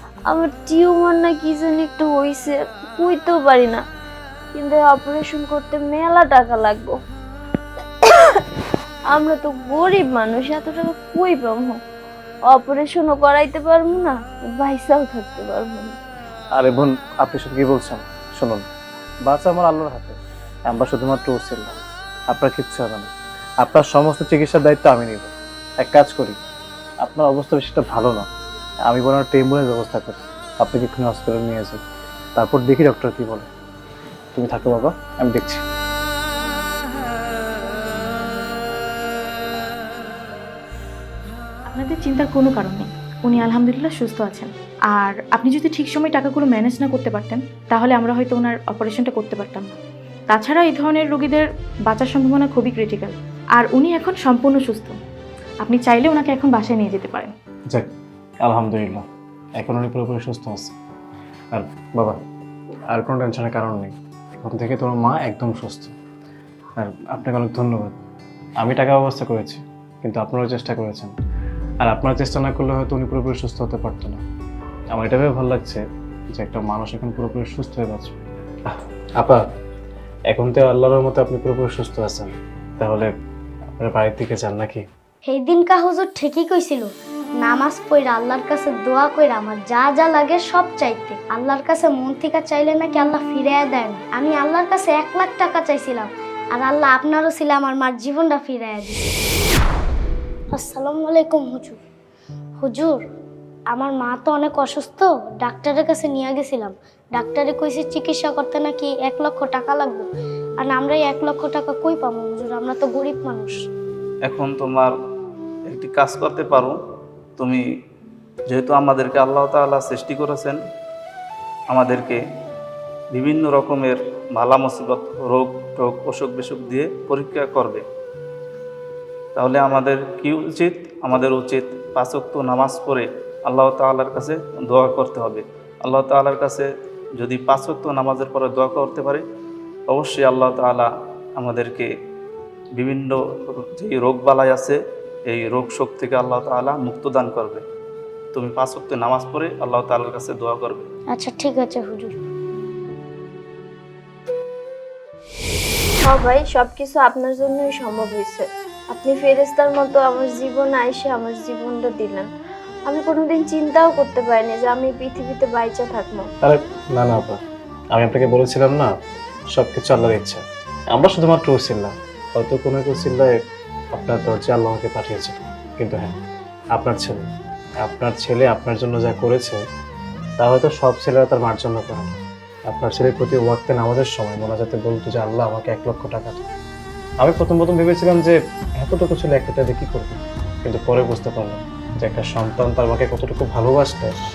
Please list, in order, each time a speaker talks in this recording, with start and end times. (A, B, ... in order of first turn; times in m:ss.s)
0:00.3-0:03.8 A
0:04.5-0:07.0 A
0:08.0-0:08.5 A
0:09.1-0:11.8 A
0:12.5-0:16.0 A
0:16.5-0:18.6 B
0:19.3-0:21.7 B
0:22.3-0:23.1 B
0:23.6-0:26.4 B
0:27.0-0:28.3 B
0:28.8-0:31.8 B
0:32.4-0:33.5 B
0:34.3-0:35.6 B
0:41.7-0:49.8 C
0:50.3-0:55.0 C
0:55.6-0:57.3 C
0:58.4-0:59.0 B
0:59.6-1:00.7 B
1:01.5-1:02.2 B
1:02.9-1:06.0 B
1:06.8-1:08.0 B
1:08.6-1:11.2 B
1:11.8-1:14.2 B
1:14.9-1:15.8 B
1:16.4-1:18.2 B
1:18.7-1:19.4 B
1:20.3-1:23.1 B
1:23.8-1:24.8 B
1:25.3-1:26.9 D
1:27.4-1:39.0 D
1:40.5-1:41.8 D
1:42.6-1:43.0 D
1:43.7-1:50.1 D
1:50.6-1:53.6 D
1:54.3-1:54.9 E
1:55.7-1:56.8 E
1:58.5-2:00.6 E
2:01.7-2:02.2 E
2:03.2-2:07.8 E
2:09.4-2:16.7 E
2:17.2-2:19.2 E
2:19.9-2:21.9 E
2:22.8-2:24.8 E
2:25.3-2:27.6 E
2:28.3-2:30.9 E
2:31.1-2:32.1 D
2:36.0-2:42.3 A
2:42.9-2:46.3 A
2:46.4-2:47.4 B
2:47.9-2:48.9 B
2:49.6-2:50.4 B
2:50.9-2:53.3 B
2:54.0-2:56.2 B
2:56.8-2:57.2 B
2:57.8-2:59.6 B
3:00.4-3:06.4 B
3:07.2-3:14.1 B